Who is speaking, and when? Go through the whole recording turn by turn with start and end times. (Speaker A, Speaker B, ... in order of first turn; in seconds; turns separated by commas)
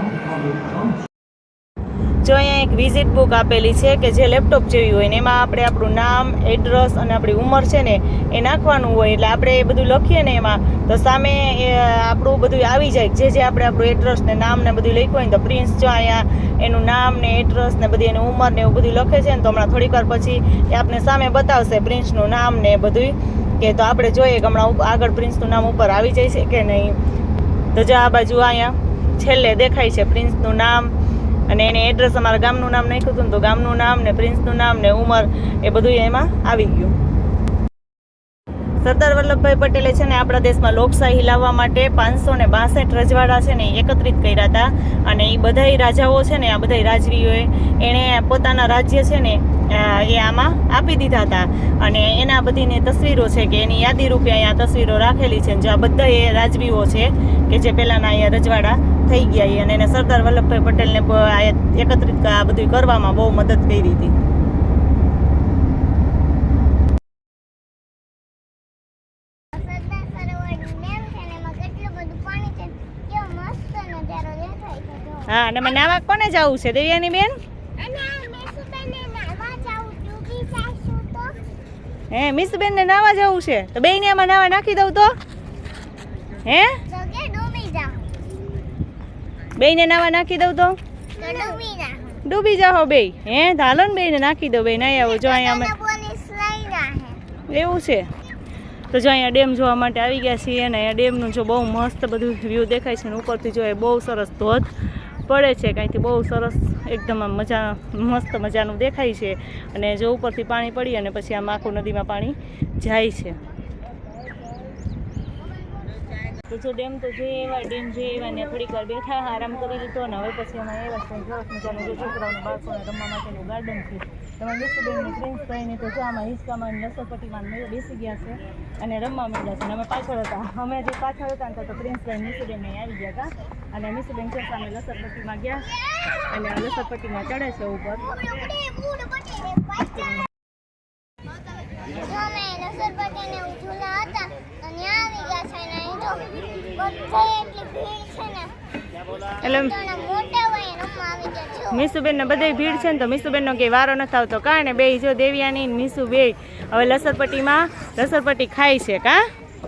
Speaker A: 2.2-27.0, Speaker A: 27.7-30.9, Speaker A: 31.5-37.0, Speaker A: 38.8-64.2, Speaker B: 69.5-76.0, Speaker A: 75.3-77.3, Speaker B: 77.8-81.4, Speaker A: 82.1-85.1, Speaker A: 86.5-86.7, Speaker B: 86.9-88.1, Speaker A: 89.6-91.6, Speaker B: 91.2-92.2, Speaker A: 92.2-95.7, Speaker B: 94.9-97.2, Speaker A: 97.5-98.1, Speaker A: 98.9-104.7, Speaker A: 105.3-113.4, Speaker B: 115.8-116.2, Speaker A: 116.5-135.7, Speaker B: 135.9-136.7, Speaker A: 136.3-138.1, Speaker B: 138.0-140.3, Speaker B: 142.0-148.5, Speaker A: 149.4-149.7, Speaker B: 149.4-151.9, Speaker A: 151.7-159.2